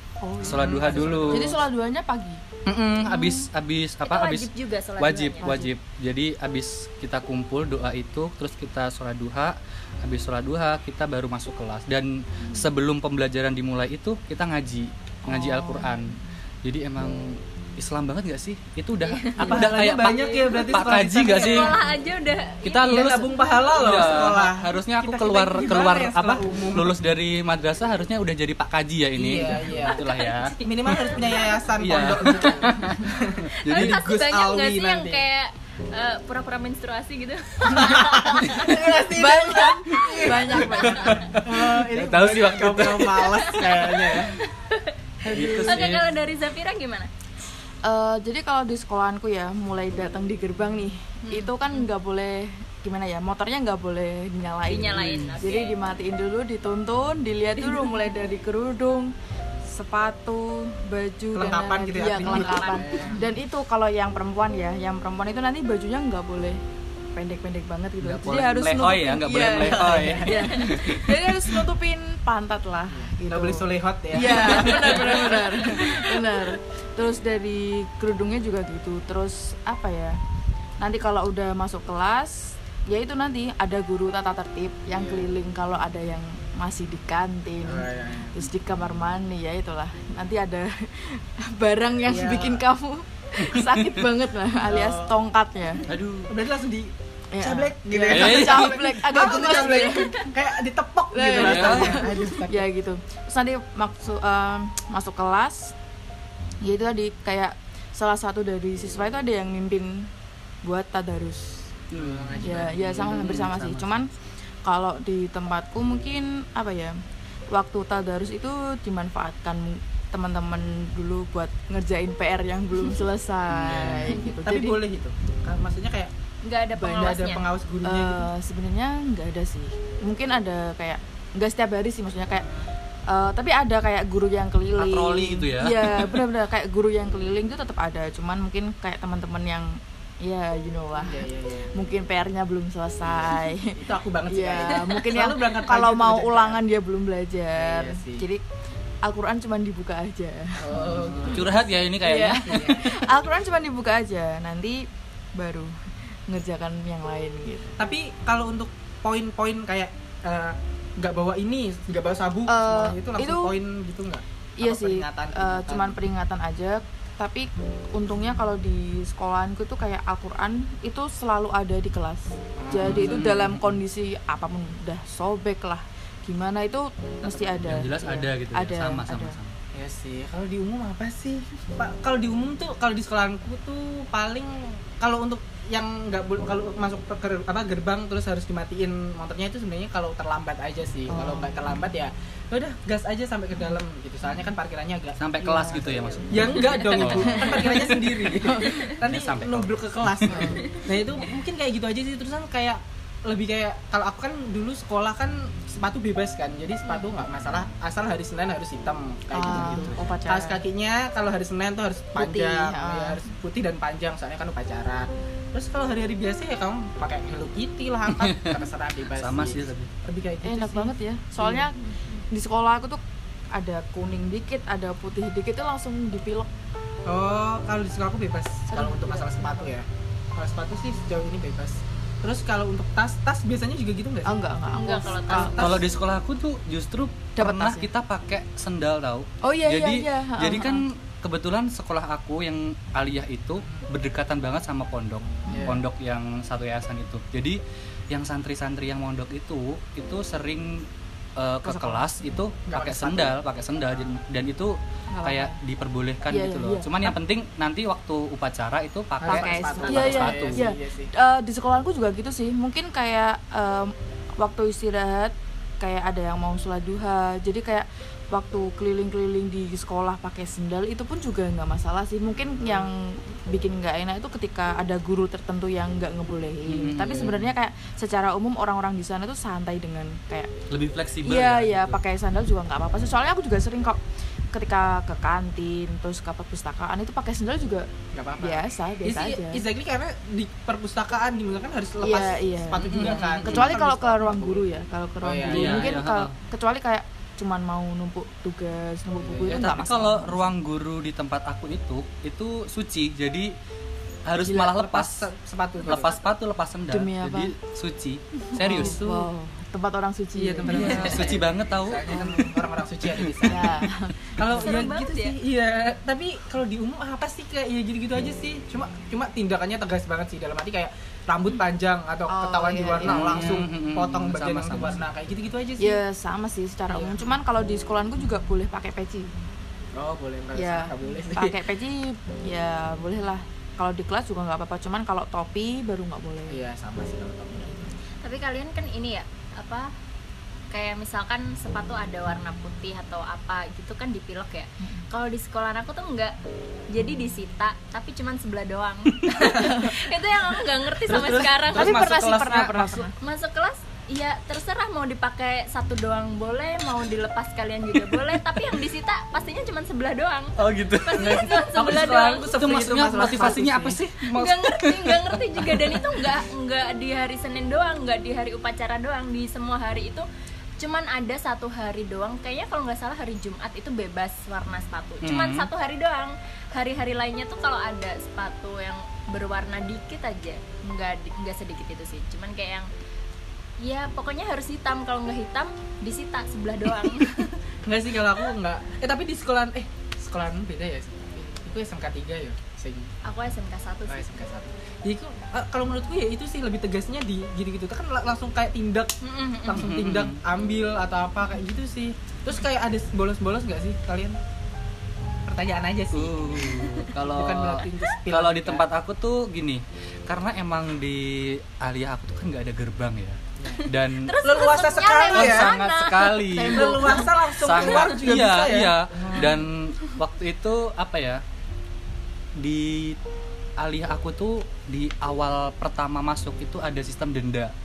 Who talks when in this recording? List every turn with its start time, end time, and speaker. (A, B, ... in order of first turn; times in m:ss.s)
0:00.2-0:02.4 A
0:00.4-0:01.6 B
0:00.4-0:01.6 C
0:02.6-0:21.8 C
0:03.1-0:03.5 A
0:04.0-0:05.5 D
0:05.4-0:05.7 A
0:15.3-0:16.2 A
0:19.0-0:24.3 D
0:19.4-0:21.8 B
0:22.6-0:31.1 C
0:22.8-0:26.9 B
0:29.2-0:30.0 B
0:29.6-0:31.6 D
0:30.6-0:35.2 B
0:31.8-0:34.0 C
0:32.2-0:32.9 D
0:33.6-0:38.9 D
0:37.6-0:44.4 B
0:39.1-0:41.3 A
0:39.9-0:41.3 D
0:40.6-0:43.3 C
0:43.2-0:47.1 D
0:45.2-0:45.9 B
0:45.3-0:46.1 C
0:47.8-0:59.1 A
0:51.2-0:51.9 D
0:54.7-0:55.7 D
0:54.9-0:55.4 C
0:57.6-0:58.0 D
0:59.6-1:06.6 A
1:01.3-1:03.2 B
1:02.1-1:03.2 D
1:07.1-1:20.2 A
1:08.0-1:11.5 C
1:09.5-1:10.3 B
1:12.9-1:15.6 B
1:14.6-1:15.5 D
1:20.8-1:35.8 A
1:24.9-1:25.3 B
1:27.6-1:28.4 B
1:32.0-1:32.6 B
1:33.4-1:34.0 C
1:34.6-1:35.2 B
1:35.8-1:36.3 C
1:36.3-1:42.6 B
1:37.3-1:40.3 A
1:38.1-1:39.0 C
1:39.2-1:40.3 D
1:41.1-1:45.7 A
1:41.3-1:42.1 C
1:46.6-1:50.1 A
1:50.6-1:51.7 A
1:51.9-1:53.9 C
1:51.9-1:53.7 B
1:52.4-1:54.1 A
1:54.6-1:56.9 A
1:57.5-2:04.8 A
2:03.5-2:04.2 C
2:04.3-2:06.1 B
2:06.4-2:07.5 D
2:06.7-2:07.2 A
2:06.9-2:08.3 B
2:07.8-2:12.4 A
2:12.4-2:12.7 B
2:13.1-2:28.4 A
2:14.7-2:16.2 C
2:21.0-2:21.7 B
2:23.7-2:26.6 B
2:27.6-2:28.3 B
2:29.0-2:30.7 A
2:30.6-2:31.6 B
2:30.8-2:32.8 C
2:32.0-2:35.7 A
2:32.5-2:32.9 B
2:36.3-2:37.8 A
2:37.8-2:46.0 B
2:42.5-2:43.5 A
2:44.6-2:59.4 A
2:52.6-2:53.3 B
2:52.8-2:53.8 C
2:57.2-2:59.5 C
2:59.7-3:41.6 B
3:11.1-3:11.6 A
3:15.2-3:17.5 C
3:15.4-3:18.9 A
3:16.5-3:19.0 D
3:18.8-3:20.6 C
3:20.3-3:20.6 A
3:29.3-3:30.6 A
3:32.2-3:33.2 A
3:38.1-3:39.9 C
3:40.4-3:41.7 A
3:42.3-3:43.0 A
3:43.5-3:46.5 A
3:47.0-3:54.4 B
3:48.7-3:49.7 A
3:54.2-3:55.8 A
3:54.7-3:55.7 D
3:55.3-3:55.8 B
3:55.6-4:20.6 C
3:57.4-3:57.9 A
3:59.4-4:00.8 A
4:03.6-4:03.9 B
4:05.5-4:05.8 A
4:05.5-4:05.8 B
4:11.6-4:12.0 A
4:12.7-4:14.1 B
4:15.1-4:15.6 A
4:16.3-4:17.2 A
4:19.2-4:21.1 B
4:19.2-4:40.5 A
4:36.7-4:37.5 C
4:40.7-4:42.0 C
4:41.2-4:44.0 A
4:44.5-4:47.9 A
4:48.1-4:54.6 B
4:48.4-4:49.6 A
4:52.0-5:00.5 A
4:52.9-4:53.7 C
4:55.2-4:56.0 B
4:55.4-4:56.3 C
4:59.2-4:59.6 B
4:59.5-5:03.5 C
5:04.2-5:05.3 C
5:04.4-5:05.0 A
5:04.7-5:06.3 B
5:05.8-5:09.3 C
5:06.9-5:07.5 A
5:08.6-5:11.4 A
5:08.6-5:08.9 B
5:10.4-5:13.8 B
5:10.6-5:12.3 C
5:12.1-5:12.6 A
5:13.2-5:13.7 C
5:13.4-5:14.8 A
5:14.4-5:26.0 B
5:14.5-5:15.4 D
5:22.3-5:23.5 A
5:23.0-5:25.0 C
5:25.8-5:29.3 A
5:26.9-5:27.4 B
5:30.0-5:31.6 B
5:30.5-5:36.6 A
5:36.5-5:37.9 B
5:38.2-5:39.9 D
5:40.7-5:46.3 D
5:46.9-5:51.9 D
5:49.6-5:49.9 A
5:51.0-5:53.1 C
5:51.7-5:53.1 A
5:53.2-6:02.5 D
5:57.9-5:58.8 C
6:00.6-6:01.6 C
6:01.2-6:04.0 B
6:02.5-6:06.4 C
6:04.3-6:10.2 D
6:10.8-6:22.9 D
6:15.2-6:15.7 C
6:23.8-6:27.6 D
6:27.8-6:33.1 B
6:33.2-6:34.2 D
6:34.1-6:44.4 B
6:39.2-6:39.8 D
6:39.7-6:40.4 C
6:45.4-6:48.8 B
6:46.1-6:54.4 C
6:53.6-6:53.9 B
6:54.1-6:58.3 D
6:54.4-6:55.7 B
6:55.3-7:01.4 C
6:56.5-6:59.6 B
7:02.6-7:03.2 C
7:03.8-7:07.7 C